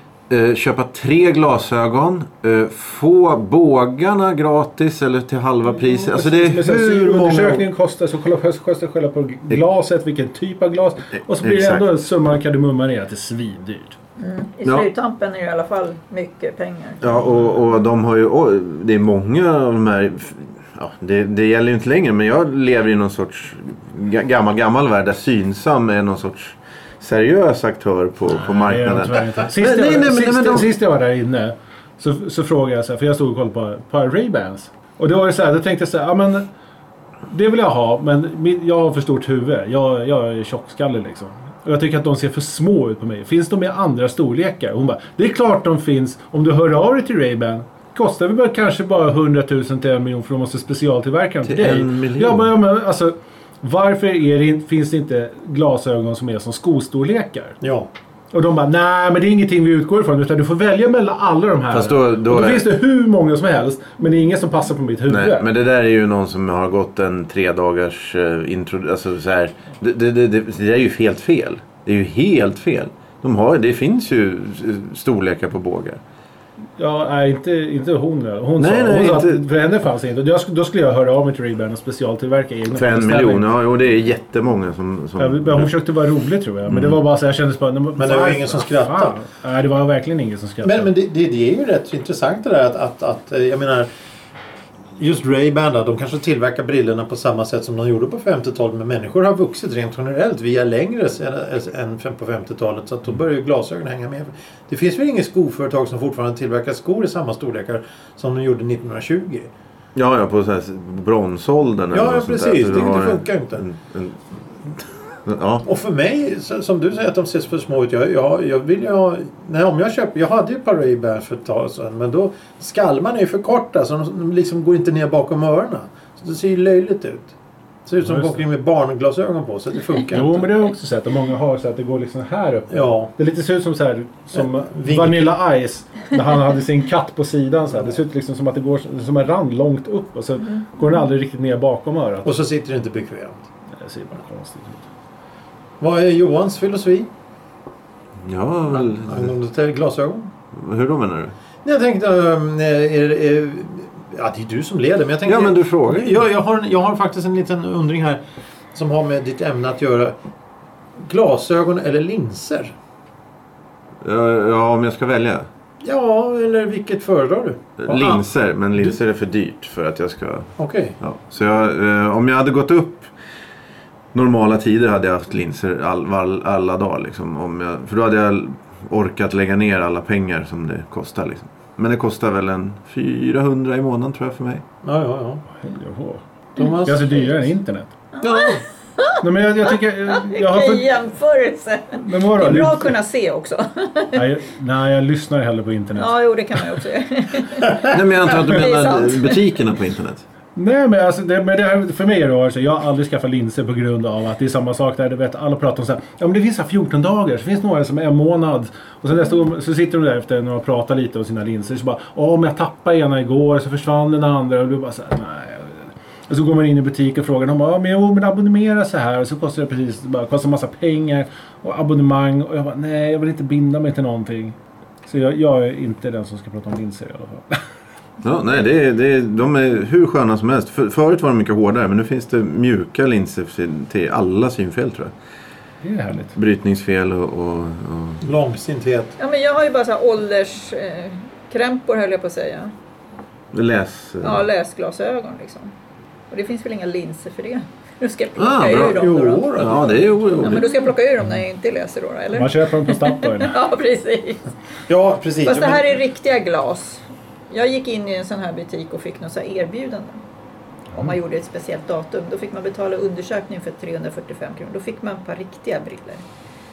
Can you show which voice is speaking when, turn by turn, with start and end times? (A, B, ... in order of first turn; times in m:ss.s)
0:00.3-0:07.6 A
0:05.8-0:14.0 B
0:11.2-0:11.8 A
0:14.2-0:17.1 C
0:17.0-0:30.7 A
0:28.4-0:36.5 B
0:37.3-0:57.6 B
0:51.4-0:52.5 A
0:57.6-0:57.9 D
0:58.3-1:05.5 B
1:01.7-1:02.7 A
1:05.1-1:16.0 A
1:16.8-1:23.5 B
1:18.6-1:19.4 A
1:22.7-1:25.7 A
1:25.2-1:30.9 B
1:26.7-1:27.0 A
1:28.0-1:29.2 D
1:30.6-1:33.9 D
1:35.0-1:49.5 D
1:50.0-1:55.6 A
1:51.9-1:53.7 D
1:55.6-2:07.3 D
2:07.9-2:10.5 D
2:08.0-2:08.4 B
2:10.1-2:22.3 B
2:12.7-2:13.1 D
2:14.3-2:15.3 D
2:20.5-2:21.0 C
2:22.2-2:23.4 D
2:23.8-2:24.8 B
2:25.8-2:27.1 D
2:28.2-2:29.3 A
2:28.7-2:30.3 D
2:30.5-2:31.4 A
2:31.6-2:38.2 D
2:35.2-2:36.2 A
2:38.7-2:40.2 D
2:41.0-2:42.7 D
2:44.0-2:45.5 A
2:45.8-2:48.2 D
2:47.8-2:53.1 A
2:50.6-2:51.0 D
2:54.1-3:04.6 A
3:04.8-3:05.4 D
3:05.6-3:06.2 B
3:06.6-3:07.4 D
3:06.8-3:07.9 B
3:08.1-3:14.2 C
3:08.3-3:08.5 D
3:09.2-3:10.9 B
3:11.9-3:12.9 B
3:14.1-3:16.1 B
3:16.0-3:19.6 C
3:17.9-3:20.2 A
3:20.6-3:47.6 B
3:48.2-3:55.1 A
3:55.8-3:56.4 B
3:56.4-3:58.2 A
3:58.2-3:59.2 D
3:59.2-4:02.7 C
4:03.5-4:04.5 A
4:04.2-4:05.7 C
4:06.3-4:09.8 C
4:08.4-4:10.7 A
4:08.8-4:10.7 D
4:10.4-4:14.5 C
4:12.3-4:13.6 B
4:14.9-4:15.9 D
4:15.4-4:20.2 C
4:21.0-4:26.2 C